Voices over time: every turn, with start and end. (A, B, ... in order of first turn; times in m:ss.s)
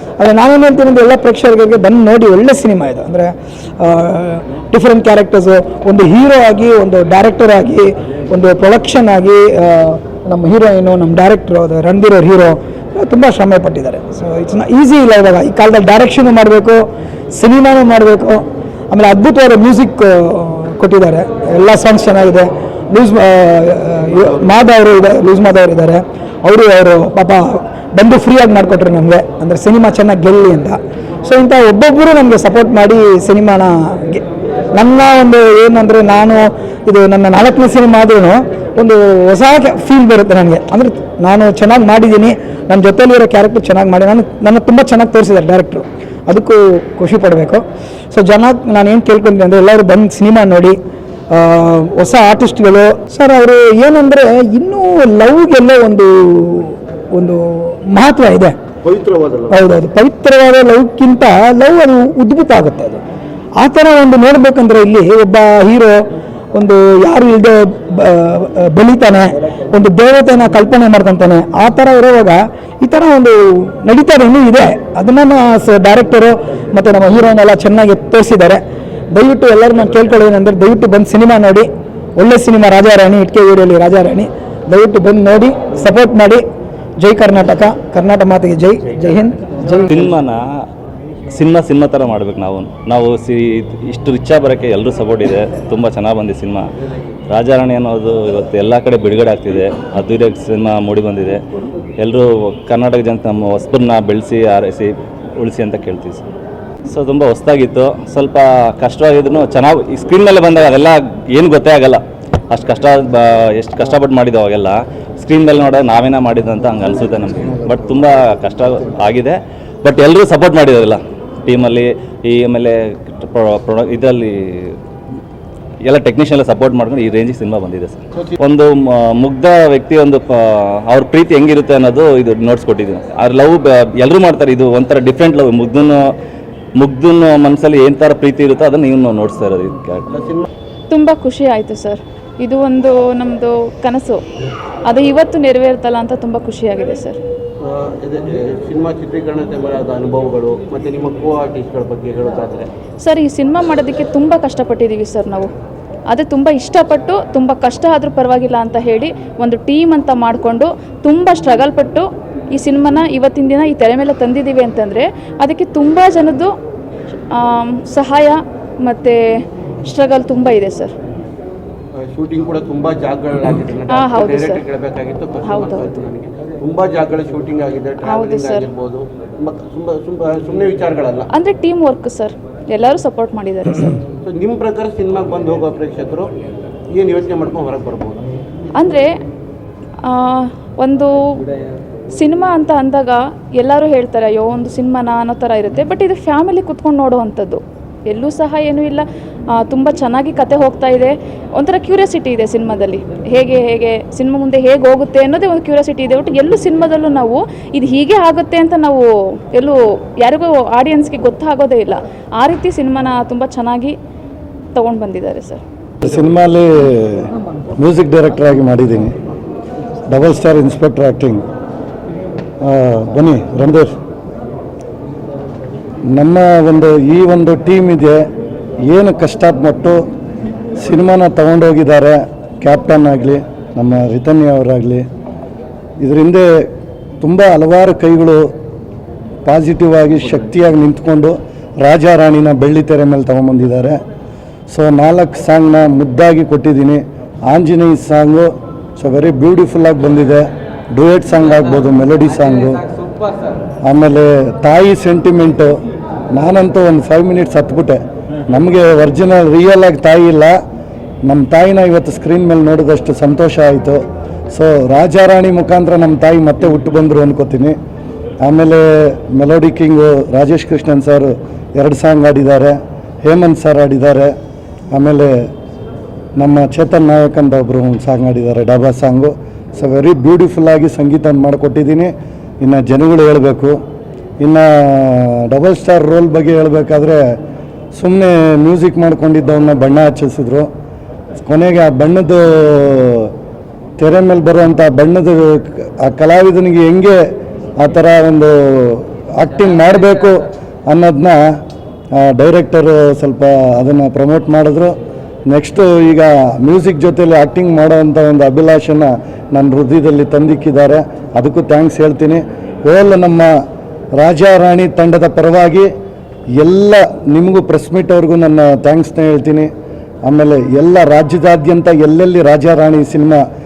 0:00.2-0:34.2 A
0:34.7-0:50.8 A
0:51.3-0:58.6 A
0:58.8-0:59.6 B
0:59.5-1:03.0 A
1:03.6-1:06.0 A
1:06.5-1:18.6 A
1:19.1-1:26.4 A
1:27.0-1:30.0 A
1:29.9-1:30.4 C
1:31.3-1:36.7 C
1:37.3-1:41.4 C
1:42.0-1:46.2 C
1:46.9-2:04.8 C
2:05.8-2:16.0 C
2:16.8-2:20.1 C
2:20.1-2:20.4 B
2:20.9-2:24.2 D
2:24.9-2:27.2 D
2:27.6-2:32.7 B
2:33.0-2:35.5 D
2:36.1-2:46.5 D
2:47.3-2:50.9 D
2:52.1-3:01.3 B
2:53.9-2:54.6 D
2:55.4-2:55.9 D
2:58.0-2:58.7 D
3:01.3-3:04.0 D
3:04.2-3:06.3 B
3:07.0-3:08.2 B
3:08.8-3:09.1 D
3:10.0-3:11.4 D
3:12.1-3:34.0 D
3:34.8-3:35.6 D
3:36.0-3:39.2 E
3:40.1-3:41.4 E
3:42.6-3:43.9 E
3:46.1-3:48.3 E
3:48.9-3:50.0 E
3:50.8-3:55.0 E
3:56.0-3:56.7 E
3:57.2-3:58.5 E
3:59.4-4:04.0 E
4:04.7-4:12.8 E
4:13.9-4:15.8 E
4:16.3-4:20.6 E
4:21.2-4:27.8 E
4:28.4-4:34.3 E
4:34.9-4:35.3 E
4:36.4-4:43.8 E
4:44.4-4:47.2 E
4:48.0-4:50.7 E
4:51.4-4:53.3 E
4:54.0-4:57.2 E
4:57.8-5:01.6 E
5:02.2-5:05.0 E
5:05.5-5:13.5 E
5:14.2-5:15.9 E
5:16.6-5:19.7 E
5:20.3-5:23.4 E